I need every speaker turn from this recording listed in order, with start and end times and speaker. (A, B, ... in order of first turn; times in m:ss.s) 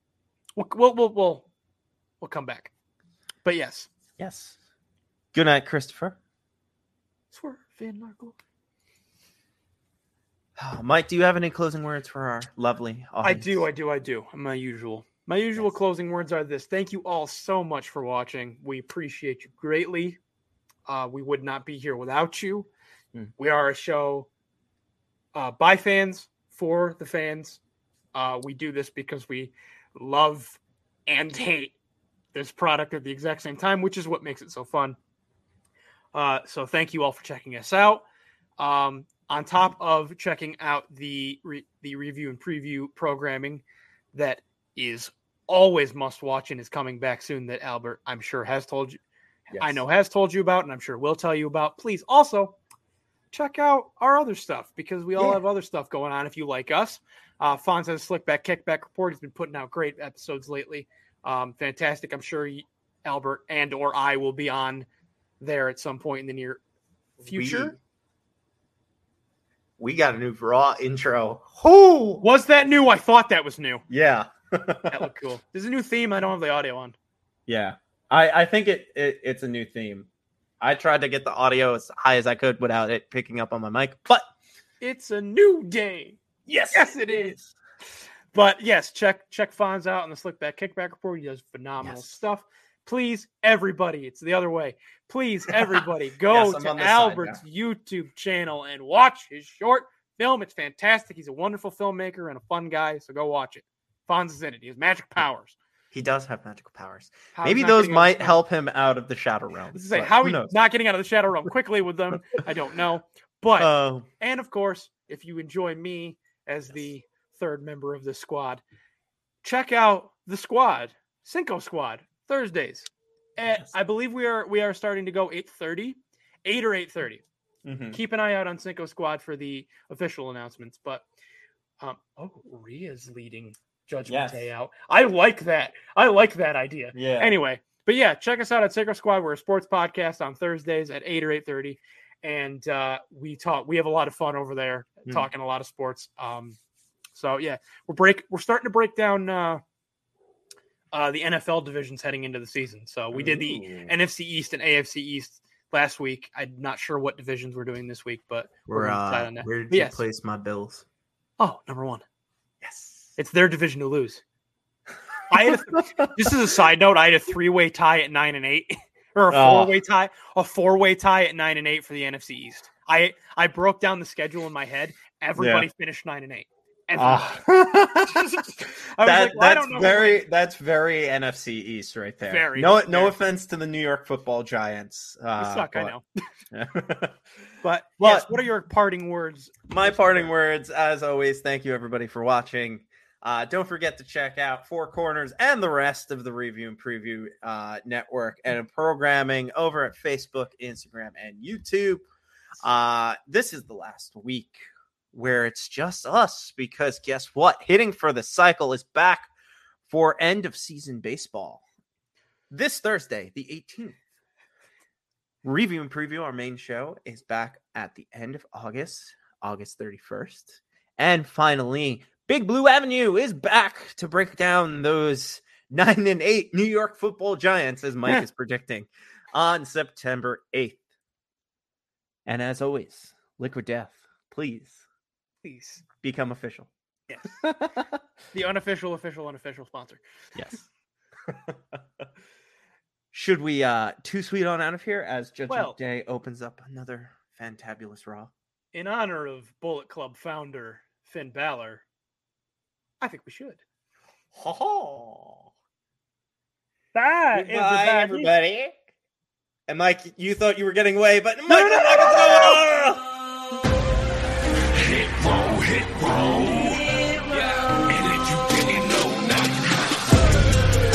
0:00.6-0:01.5 A
0:02.2-0:02.7 A
0:03.4-0:03.9 A
0:04.2-0:04.6 B
0:05.3-0:06.2 B
0:07.3-0:08.4 A
0:10.6-0:13.6 B
0:13.2-0:20.2 A
0:20.9-0:22.7 A
0:23.4-0:24.3 A
0:25.4-0:27.6 A
0:28.1-0:31.8 A
0:32.3-0:35.0 A
0:36.1-0:38.0 A
0:38.6-0:49.0 A
0:49.5-0:49.8 B
0:49.5-0:52.6 A
0:53.3-1:04.9 A
1:05.4-1:06.6 A
1:07.2-1:07.8 B
1:07.2-1:07.8 A
1:09.8-1:12.2 B
1:12.2-1:13.8 A
1:13.9-1:15.1 B
1:14.9-1:17.0 A
1:17.5-1:20.1 B
1:20.6-1:24.2 B
1:24.8-1:26.2 A
1:26.5-1:27.4 B
1:26.7-1:27.4 A
1:28.3-1:45.6 A
1:31.8-1:32.2 B
1:35.5-1:37.4 B
1:45.9-1:50.5 B
1:47.3-1:48.4 A
1:49.7-1:58.6 A
1:53.6-1:54.1 B
1:59.4-2:07.2 A
2:07.6-2:08.0 B
2:07.9-2:11.0 A
2:11.8-2:26.6 A
2:14.1-2:14.5 B
2:16.9-2:17.4 B
2:27.1-2:29.6 A
2:30.9-2:40.0 A
2:33.1-2:34.0 B
2:38.7-2:40.8 B
2:41.4-2:42.0 A
2:42.6-2:43.1 B
2:43.2-2:44.2 A
2:45.3-2:57.4 A
2:45.5-2:46.3 B
2:49.3-2:49.8 B
2:55.4-2:55.7 B
2:57.0-2:58.5 B
2:58.0-3:00.2 A
2:59.0-3:05.9 B
3:02.2-3:03.2 A
3:05.4-3:06.0 A
3:06.5-3:07.2 B
3:07.6-3:10.3 A
3:08.0-3:08.3 B
3:09.7-3:22.0 B
3:22.6-3:29.3 B
3:29.9-3:31.6 B
3:32.5-3:34.0 B
3:35.4-3:50.8 B
3:52.3-3:54.8 B
3:55.4-3:55.8 A
3:56.0-3:56.7 B
3:57.1-3:57.5 A
3:57.2-3:58.0 B
3:58.3-4:00.6 A
4:00.4-4:00.6 B
4:01.3-4:02.0 B
4:03.1-4:08.3 B
4:05.5-4:05.8 A
4:08.7-4:11.8 A
4:13.0-4:13.6 A
4:14.3-4:15.5 B
4:16.9-4:18.3 A
4:17.3-4:18.8 B
4:19.7-4:23.0 B
4:21.5-4:22.5 A
4:24.7-4:30.1 C